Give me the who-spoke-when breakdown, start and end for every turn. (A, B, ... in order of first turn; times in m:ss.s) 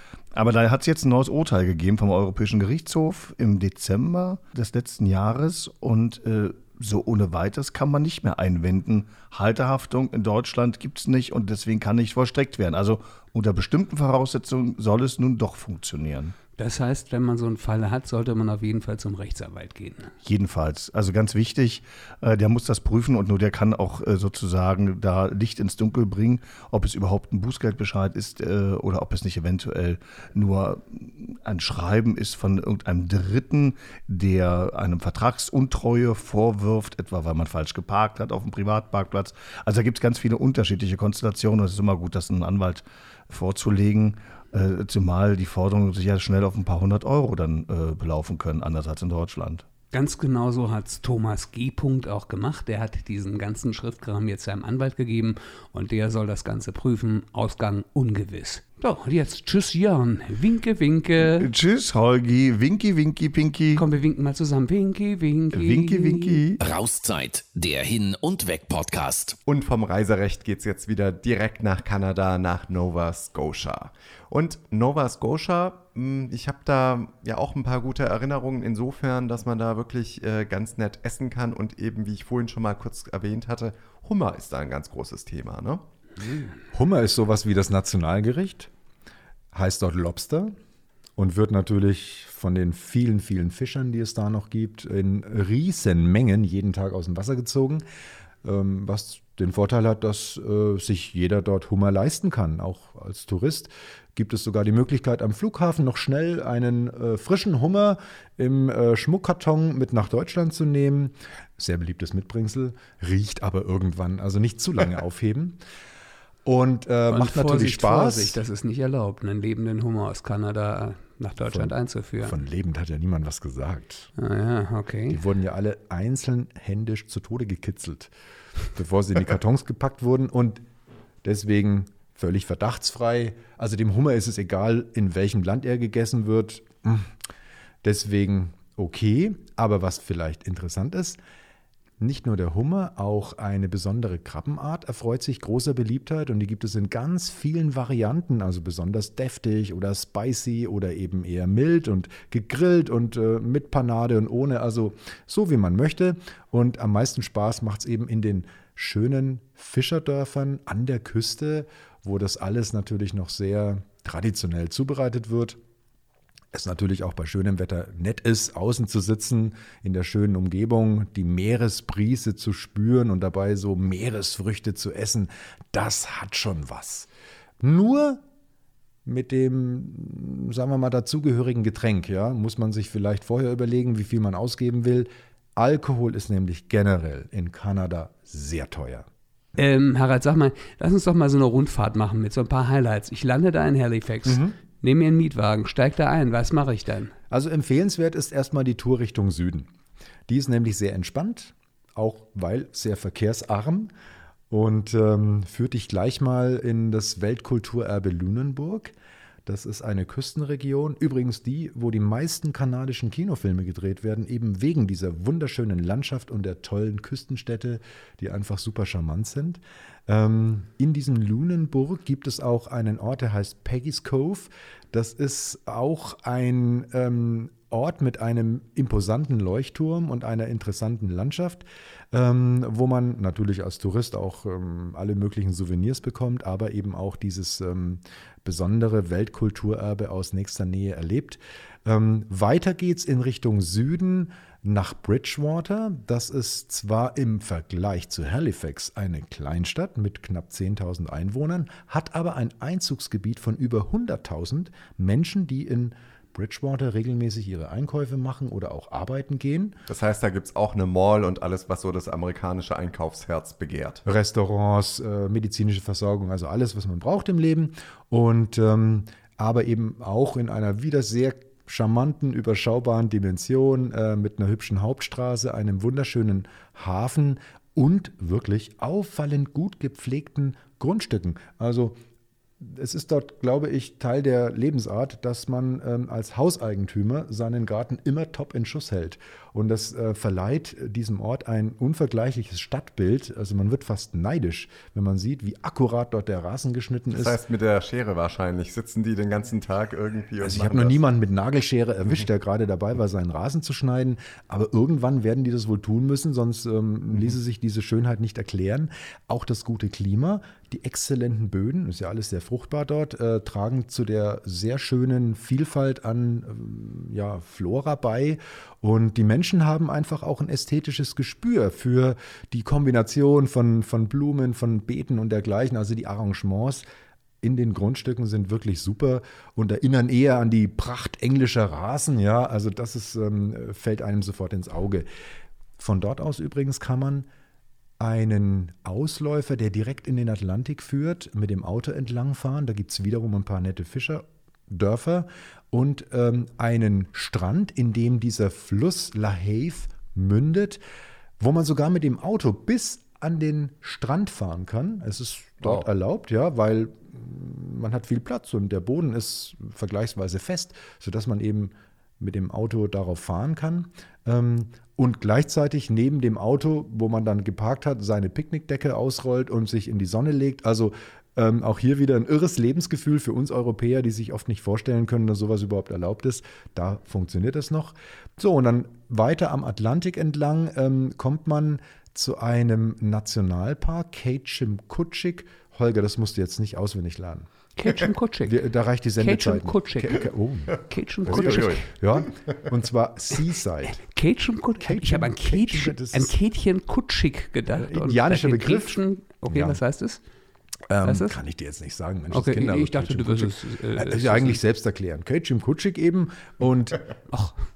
0:00.3-0:16.3 A
0:16.6-0:20.1 B
0:20.2-0:49.6 A
0:49.9-1:01.5 B
1:01.2-1:03.8 A
1:03.8-1:06.4 B
1:05.5-1:06.6 A
1:06.6-1:09.4 C
1:09.5-1:25.8 D
1:26.7-1:28.7 E
1:29.5-1:30.5 E
1:31.2-1:37.8 E
1:38.4-1:55.6 E
1:56.4-1:58.4 E
1:57.1-2:02.4 B
2:01.4-2:04.1 E
2:04.2-2:05.2 B
2:05.1-2:08.1 E
2:08.7-2:10.6 E
2:11.2-2:17.1 E
2:17.8-2:21.2 E
2:22.0-2:45.6 E
2:46.5-2:58.2 E
2:59.0-3:09.1 E
3:09.6-3:17.1 B
3:14.2-3:14.5 E
3:17.3-3:19.7 E
3:20.3-3:23.9 E
3:24.5-3:28.9 E
3:29.4-4:19.8 E
4:19.9-4:24.0 D
4:24.0-4:42.0 E
4:42.6-4:57.4 E
4:57.2-5:01.0 D
5:00.4-5:26.8 E
5:27.4-5:35.0 E
5:35.8-5:37.3 E
5:38.0-5:50.8 E
5:51.4-6:27.5 E
6:27.8-6:28.6 B
6:28.4-6:34.0 E
6:29.2-6:30.2 B
6:30.8-6:31.8 B
6:31.3-6:31.8 D
6:34.1-6:40.2 B
6:34.8-6:36.3 E
6:37.7-6:39.8 E
6:40.9-6:47.0 E
6:41.0-6:41.4 B
6:42.3-6:44.6 B